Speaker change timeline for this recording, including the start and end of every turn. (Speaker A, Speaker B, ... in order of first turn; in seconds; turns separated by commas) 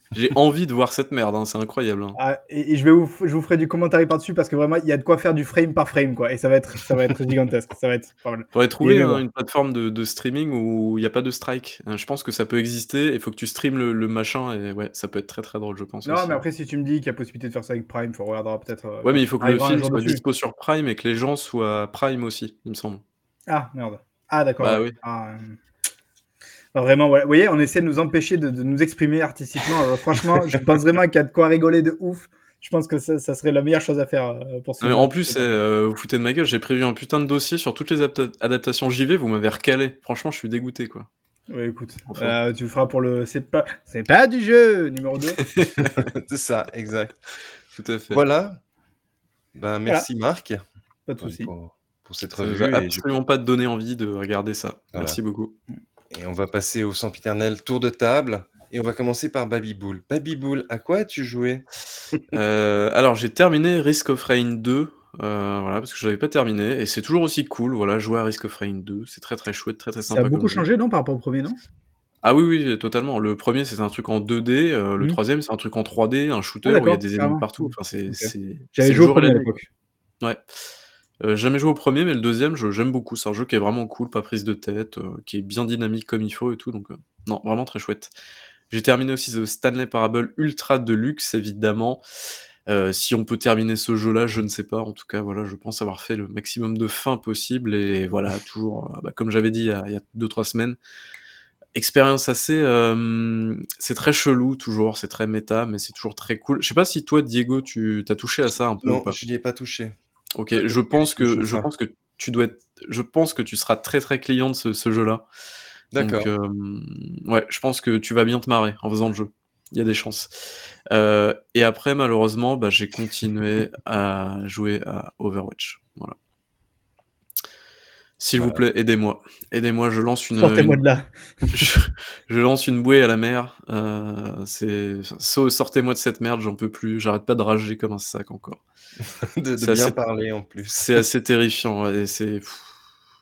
Speaker A: 0.1-2.2, Speaker B: 2.2-9.2, Speaker A: 8.5-16.4, Speaker B: 16.1-20.2, Speaker A: 19.0-23.0, Speaker B: 23.5-25.6, Speaker A: 24.6-25.0, Speaker B: 26.8-35.4, Speaker A: 34.8-41.1, Speaker B: 41.5-45.4, Speaker A: 45.4-46.1, Speaker C: 45.8-47.2, Speaker A: 47.7-48.2, Speaker C: 48.1-48.6, Speaker C: 49.5-50.6, Speaker B: 51.1-51.5, Speaker C: 51.2-53.0, Speaker A: 52.4-55.5, Speaker C: 56.1-62.3, Speaker A: 62.3-70.7, Speaker B: 70.1-71.6, Speaker A: 72.2-79.5, Speaker B: 76.7-79.7, Speaker A: 81.2-88.1, Speaker A: 88.7-92.0, Speaker A: 92.7-100.8, Speaker A: 101.8-109.2, Speaker C: 108.8-110.0, Speaker A: 110.4-115.2, Speaker C: 110.5-111.7, Speaker C: 115.9-116.3, Speaker A: 116.0-120.3, Speaker A: 120.9-126.2, Speaker A: 128.2-130.8, Speaker B: 130.4-131.6, Speaker A: 131.5-138.6, Speaker C: 139.2-141.0, Speaker A: 139.6-140.0, Speaker A: 140.8-142.7